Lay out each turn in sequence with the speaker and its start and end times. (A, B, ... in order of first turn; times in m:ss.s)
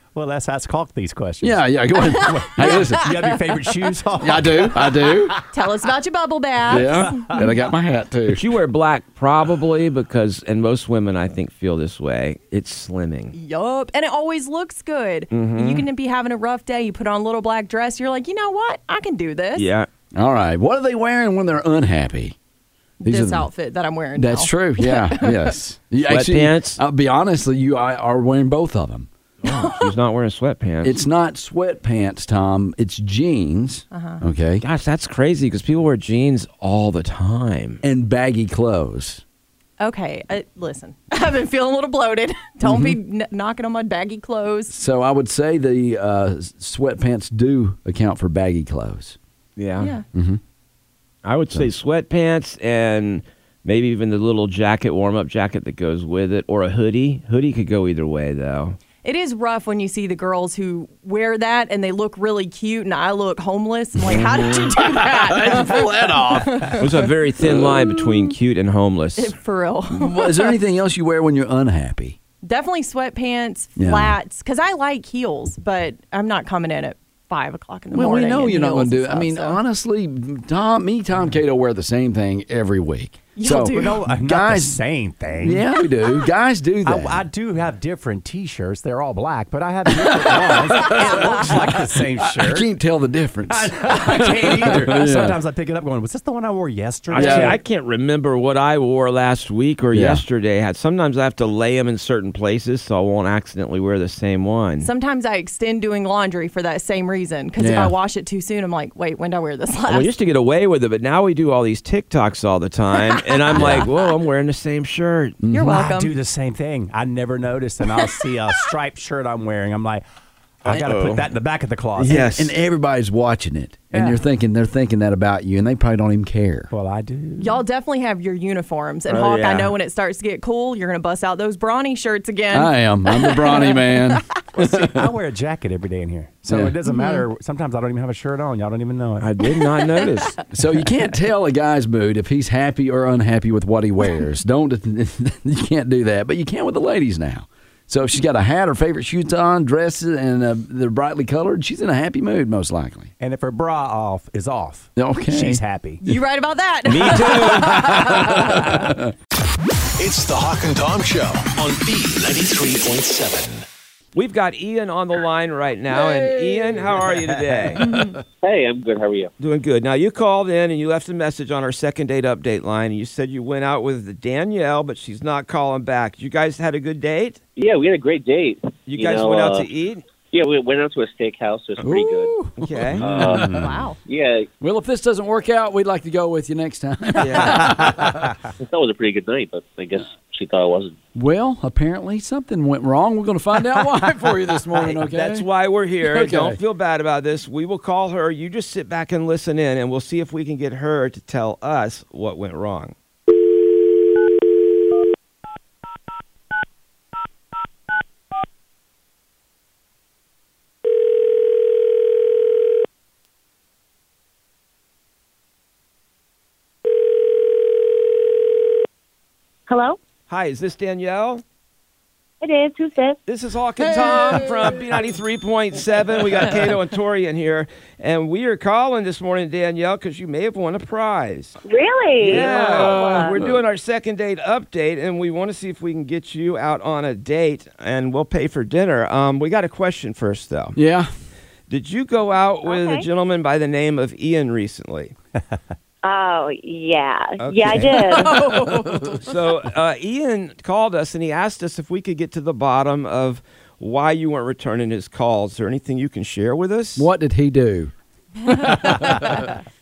0:00.1-0:05.5 A
0:01.4-0:03.4 B
0:02.4-0:02.8 C
0:04.2-0:05.4 B
0:05.5-0:07.7 C
0:06.7-0:08.5 B
0:08.3-0:13.4 D
0:13.3-0:19.7 C
0:15.3-0:15.9 D
0:19.6-0:19.9 D
0:20.1-0:22.4 B
0:23.0-0:25.5 C
0:23.0-0:23.5 B
0:24.2-0:29.1 B
0:26.1-0:26.8 D
0:29.4-0:31.0 D
0:29.5-0:29.9 C
0:30.8-0:34.6 B
0:33.9-0:34.2 C
0:34.6-0:37.8 D
0:37.8-0:39.2 B
0:39.8-0:44.7 C
0:42.6-0:43.0 B
0:44.7-0:49.2 B
0:49.6-0:49.9 D
0:50.1-0:50.4 B
0:51.2-0:58.8 D
0:59.0-1:06.9 C
1:04.1-1:08.0 B
1:06.8-1:09.4 D
1:09.2-1:10.6 C
1:09.9-1:12.2 B
1:12.4-1:19.6 C
1:13.8-1:14.2 B
1:17.9-1:24.8 B
1:23.4-1:24.0 C
1:23.7-1:25.7 A
1:25.4-1:27.3 B
1:26.8-1:32.7 A
1:30.0-1:35.4 B
1:33.5-1:37.6 A
1:37.1-1:44.9 D
1:37.1-1:37.6 B
1:39.9-1:40.2 B
1:44.8-1:50.1 C
1:47.6-1:47.9 B
1:49.9-1:55.4 D
1:53.1-1:54.0 C
1:53.5-1:53.9 B
1:55.4-1:55.9 B
1:55.5-1:56.1 C
1:55.7-2:00.0 A
2:00.6-2:02.3 A
2:00.7-2:01.3 D
2:02.0-2:02.5 D
2:02.0-2:06.7 B
2:03.9-2:04.2 A
2:06.7-2:07.6 A
2:07.4-2:14.2 C
2:09.1-2:09.7 D
2:12.5-2:15.2 B
2:14.5-2:19.3 A
2:16.5-2:16.8 B
2:16.9-2:17.3 C
2:19.2-2:20.4 D
2:20.5-2:33.1 B
2:33.2-2:36.0 A
2:35.0-2:35.6 B
2:36.0-2:38.7 C
2:36.9-2:38.2 D
2:37.6-2:39.1 B
2:40.0-2:43.6 E
2:44.2-2:47.8 D
2:45.9-2:47.0 B
2:47.1-2:47.8 A
2:47.8-2:48.2 B
2:48.4-2:49.3 F
2:49.4-2:57.4 D
2:57.6-2:59.7 F
2:58.9-3:00.0 D
3:00.3-3:02.4 F
3:01.8-3:03.7 B
3:02.6-3:03.1 D
3:03.0-3:03.8 A
3:03.0-3:04.5 F
3:03.5-3:04.0 C
3:04.6-3:08.3 B
3:07.2-3:07.8 D
3:07.4-3:08.1 A
3:08.6-3:11.0 F
3:11.2-3:15.5 B
3:14.8-3:22.9 D
3:16.0-3:16.6 B
3:39.7-3:40.0 G
3:40.3-3:41.4 D
3:42.4-3:43.2 G
3:43.3-3:51.6 D
3:43.8-3:44.8 B
3:51.6-3:53.4 G
3:52.2-4:00.8 D
3:52.3-3:53.6 B
4:00.8-4:01.1 B
4:01.7-4:05.1 D
4:02.7-4:03.1 G
4:06.0-4:08.3 G
4:07.4-4:08.3 D
4:08.1-4:09.2 C
4:08.4-4:09.2 B
4:09.2-4:17.1 D
4:17.0-4:17.9 B
4:18.5-4:19.5 B
4:18.5-4:18.7 C